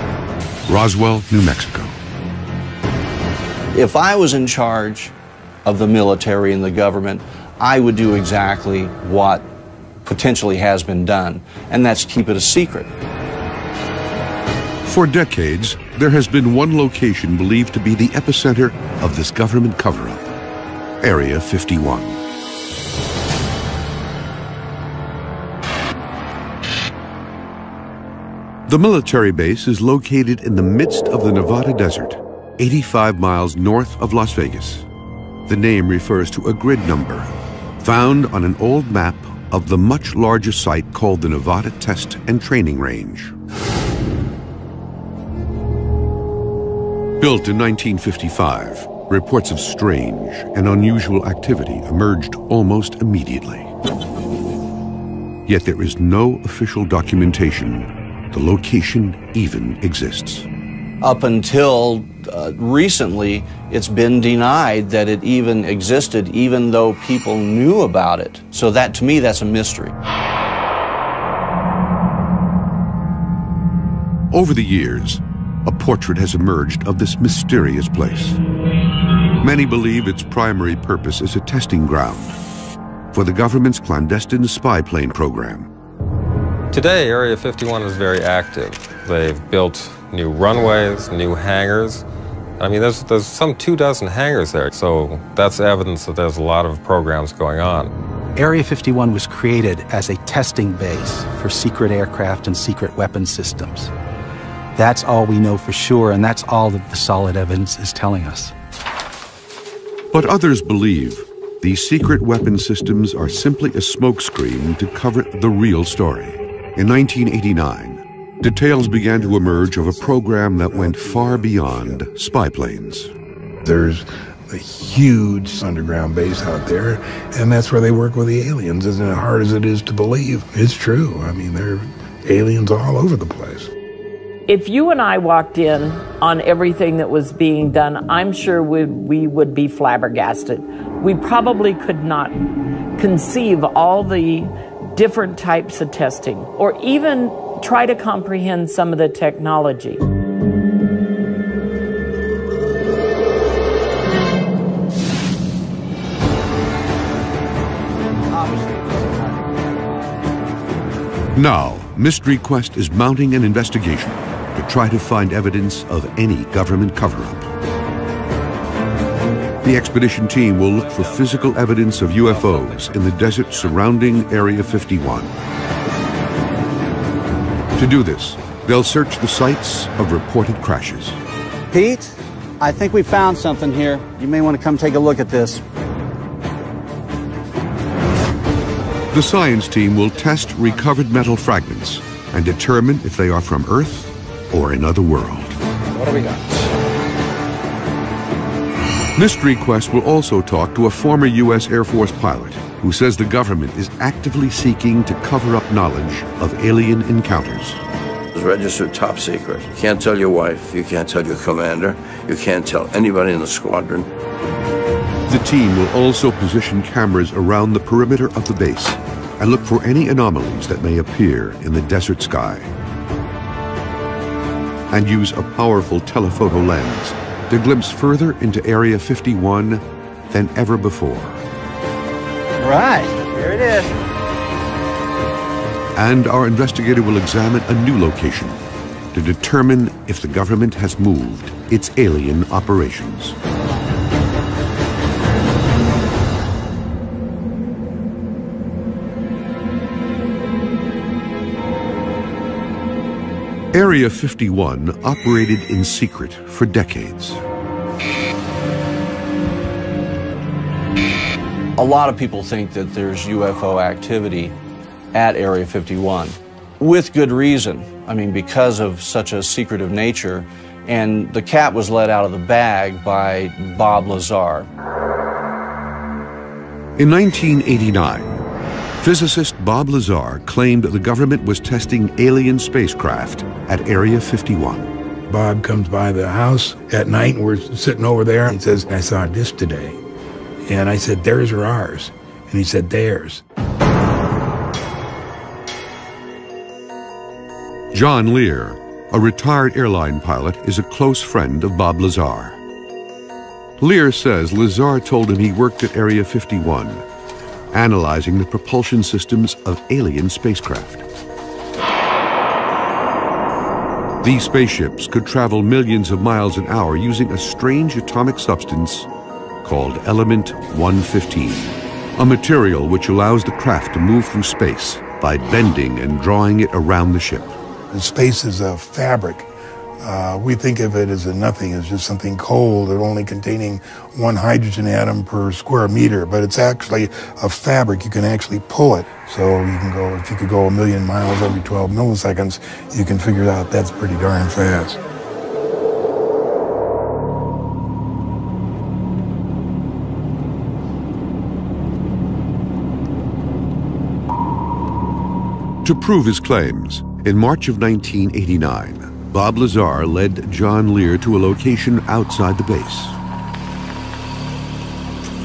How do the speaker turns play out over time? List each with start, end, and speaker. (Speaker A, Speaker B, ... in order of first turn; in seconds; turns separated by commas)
Speaker A: 0.7-2.0, Speaker B: 3.7-5.1, Speaker B: 5.6-9.5, Speaker B: 10.0-12.9, Speaker A: 14.8-20.2, Speaker A: 21.0-22.2, Speaker A: 28.7-34.9, Speaker A: 35.5-43.3, Speaker A: 47.2-53.7, Speaker A: 55.5-60.5, Speaker B: 61.0-69.9, Speaker A: 74.3-78.4, Speaker A: 79.4-82.4, Speaker A: 83.1-85.7, Speaker C: 86.7-92.0, Speaker C: 92.6-97.9, Speaker D: 98.3-103.9, Speaker D: 104.8-108.5, Speaker A: 110.1-123.1, Speaker E: 123.6-133.7, Speaker F: 134.5-142.4, Speaker F: 143.0-150.0, Speaker B: 158.3-159.5, Speaker A: 161.3-167.5, Speaker A: 169.6-175.3, Speaker C: 170.7-173.8, Speaker A: 177.8-181.2, Speaker B: 181.7-185.6, Speaker A: 189.1-195.6, Speaker A: 199.2-207.8, Speaker G: 208.3-214.1, Speaker A: 215.3-222.7, Speaker A: 224.9-231.4, Speaker B: 232.6-233.9, Speaker A: 235.9-238.6, Speaker A: 239.1-243.3, Speaker A: 253.7-257.4, Speaker B: 261.8-264.5, Speaker B: 265.1-274.7, Speaker A: 277.0-278.4, Speaker A: 279.0-284.9, Speaker E: 285.3-290.0, Speaker E: 290.6-293.4, Speaker A: 297.9-302.6, Speaker A: 303.8-307.0, Speaker A: 307.7-311.0, Speaker A: 314.2-319.1, Speaker A: 319.6-327.6, Speaker E: 327.9-329.5, Speaker E: 330.0-345.0, Speaker A: 355.8-363.2